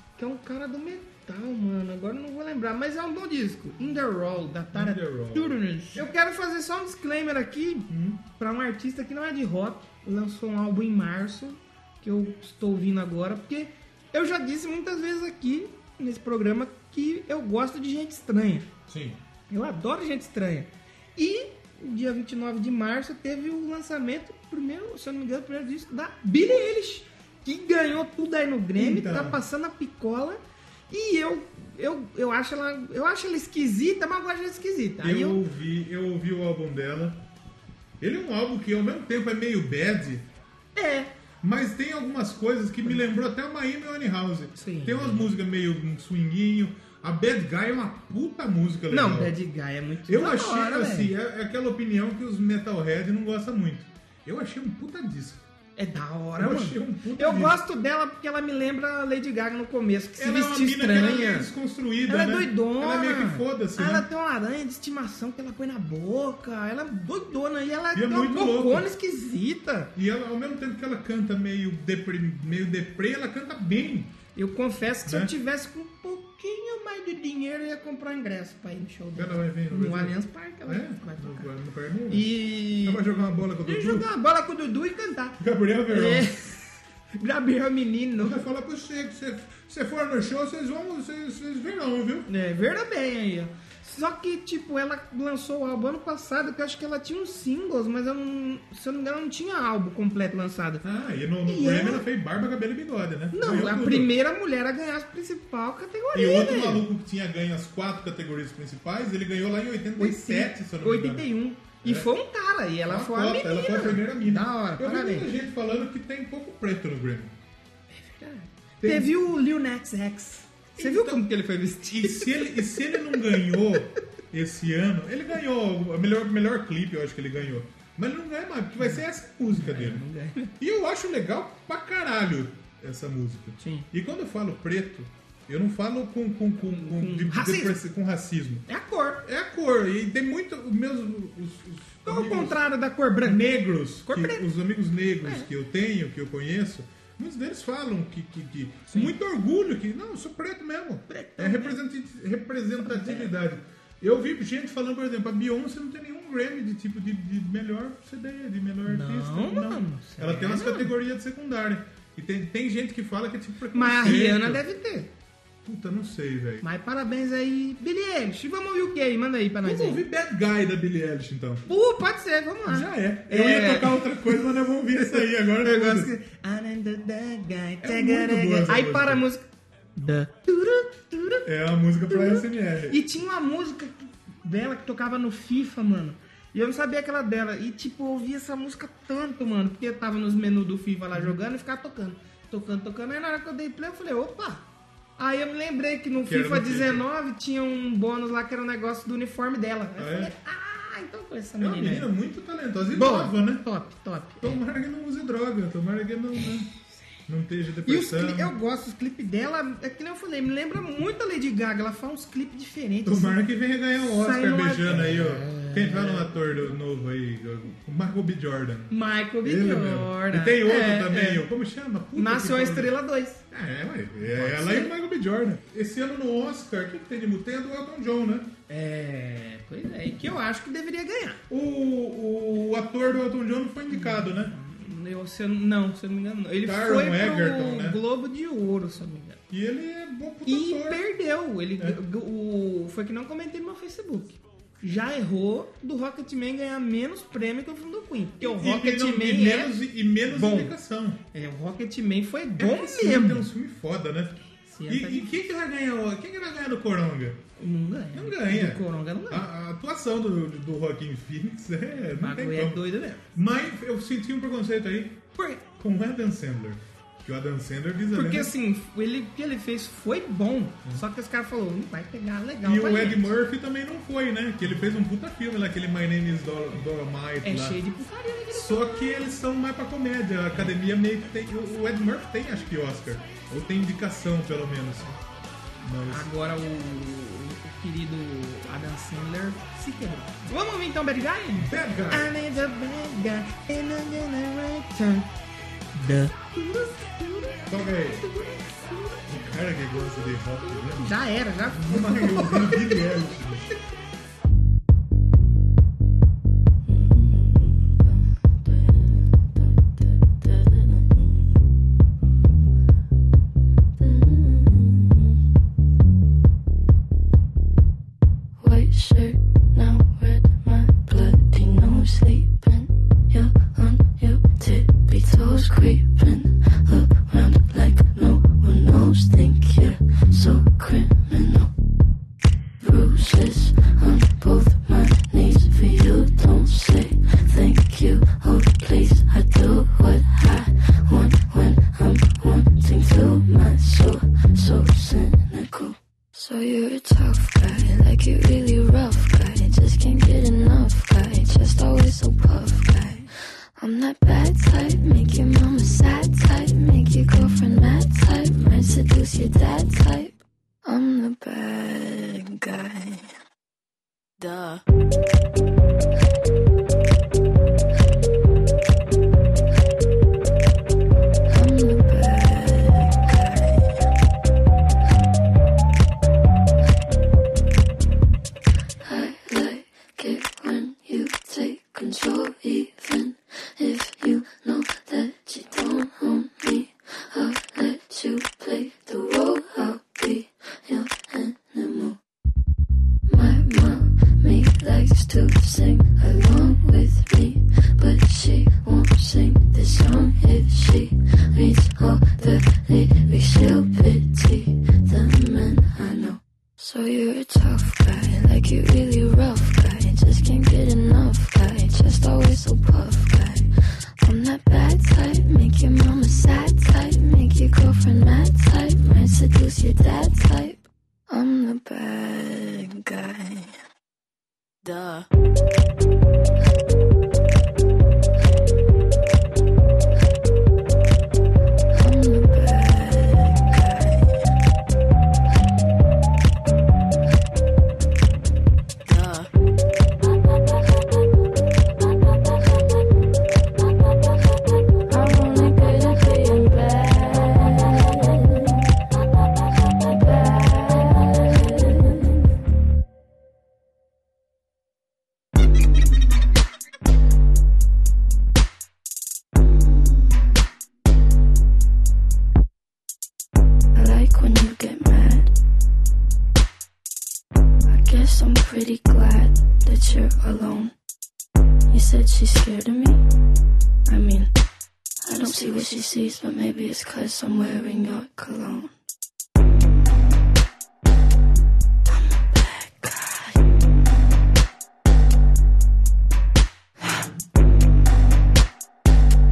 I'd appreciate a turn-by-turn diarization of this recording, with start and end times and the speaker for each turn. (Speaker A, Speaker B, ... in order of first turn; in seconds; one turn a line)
Speaker A: 0.2-18.7
Speaker B: 4.7-6.1
Speaker B: 7.9-8.2
Speaker B: 18.9-19.2
Speaker A: 19.5-35.4
Speaker B: 28.8-29.4
Speaker B: 35.0-37.2
Speaker B: 38.0-40.3
Speaker A: 40.8-41.1
Speaker B: 41.4-49.3
Speaker A: 44.6-45.3
Speaker A: 48.9-51.1
Speaker B: 50.1-55.5
Speaker A: 55.8-61.5
Speaker B: 56.4-57.6
Speaker B: 60.2-64.1
Speaker A: 62.1-69.9
Speaker B: 67.9-68.9
Speaker B: 70.0-74.2
Speaker A: 74.3-81.5
Speaker B: 75.0-75.3
Speaker B: 79.2-84.1
Speaker A: 82.1-83.1
Speaker A: 83.6-88.4
Speaker B: 85.4-86.3
Speaker B: 88.2-92.3
Speaker A: 92.3-100.8
Speaker B: 100.8-104.1
Speaker A: 101.5-102.0
Speaker A: 103.3-106.8
Speaker B: 106.1-111.3
Speaker A: 110.0-115.3
Speaker B: 111.8-112.1
Speaker B: 112.9-117.3
Speaker A: 117.9-123.8
Speaker B: 118.8-119.2
Speaker B: 120.8-121.3
Speaker B: 122.0-130.0
Speaker A: 128.8-130.5
Speaker B: 130.6-138.7
Speaker A: 133.6-133.9
Speaker A: 136.7-137.8
Speaker A: 138.7-139.2
Speaker B: 139.2-142.6
Speaker A: 142.1-144.4
Speaker B: 143.2-164.6
Speaker A: 145.2-145.5
Speaker A: 151.1-151.8
Speaker A: 152.8-153.3
Speaker A: 158.9-160.9
Speaker A: 163.7-165.1
Speaker B: 165.6-166.7
Speaker A: 166.6-170.0
Speaker B: 169.6-171.7
Speaker A: 171.7-174.3
Speaker B: 172.7-176.1
Speaker A: 175.0-179.4
Speaker B: 177.8-179.2
Speaker A: 180.0-181.4
Speaker B: 181.4-183.0
Speaker A: 182.1-194.7
Speaker B: 191.1-191.4
Speaker A: 195.2-202.1
Speaker B: 196.2-197.1
Speaker B: 200.0-200.3
Speaker B: 201.6-203.7
Speaker A: 202.9-204.6
Speaker B: 204.4-206.7
Speaker B: 207.3-208.6
Speaker A: 207.9-213.4
Speaker B: 213.1-223.0
Speaker A: 214.0-216.7
Speaker A: 218.9-221.4
Speaker A: 222.2-223.4
Speaker B: 223.5-228.5
Speaker A: 224.2-224.9
Speaker A: 228.7-231.4
Speaker B: 231.5-234.5
Speaker A: 233.9-239.4
Speaker B: 236.6-238.0
Speaker B: 239.5-241.0
Speaker A: 240.5-249.8
Speaker B: 248.4-251.2
Speaker A: 250.3-250.8
Speaker A: 251.3-253.5
Speaker B: 252.6-257.4
Speaker A: 254.4-255.3
Speaker A: 257.6-259.5
Speaker B: 258.1-262.8
Speaker A: 262.1-263.3
Speaker B: 263.3-265.2
Speaker A: 265.4-265.6
Speaker B: 265.8-268.5
Speaker A: 268.1-273.3
Speaker B: 272.6-277.8
Speaker A: 277.4-279.3
Speaker B: 278.5-285.2
Speaker B: 285.8-286.3
Speaker A: 286.1-295.3
Speaker B: 291.6-292.4
Speaker A: 295.9-299.4
Speaker B: 297.7-298.3
Speaker B: 299.3-301.2
Speaker A: 300.9-303.2
Speaker B: 301.7-303.7
Speaker C: 306.8-311.6
Speaker C: 314.0-315.4
Speaker C: 318.6-331.7
Speaker C: 332.8-363.3
Speaker C: 364.4-364.8
Speaker C: 371.5-374.0
Speaker C: 379.0-392.2
Speaker C: 393.3-413.7
Speaker C: 414.2-423.8
Speaker C: 424.8-425.3
Speaker C: 431.9-434.4
Speaker C: 439.1-439.5
Speaker C: 445.1-448.8
Speaker C: 449.9-452.4
Speaker C: 463.9-465.5
Speaker C: 467.9-470.9
Speaker C: 471.9-473.2
Speaker C: 474.1-474.5
Speaker C: 475.2-478.9
Speaker C: 482.1-483.6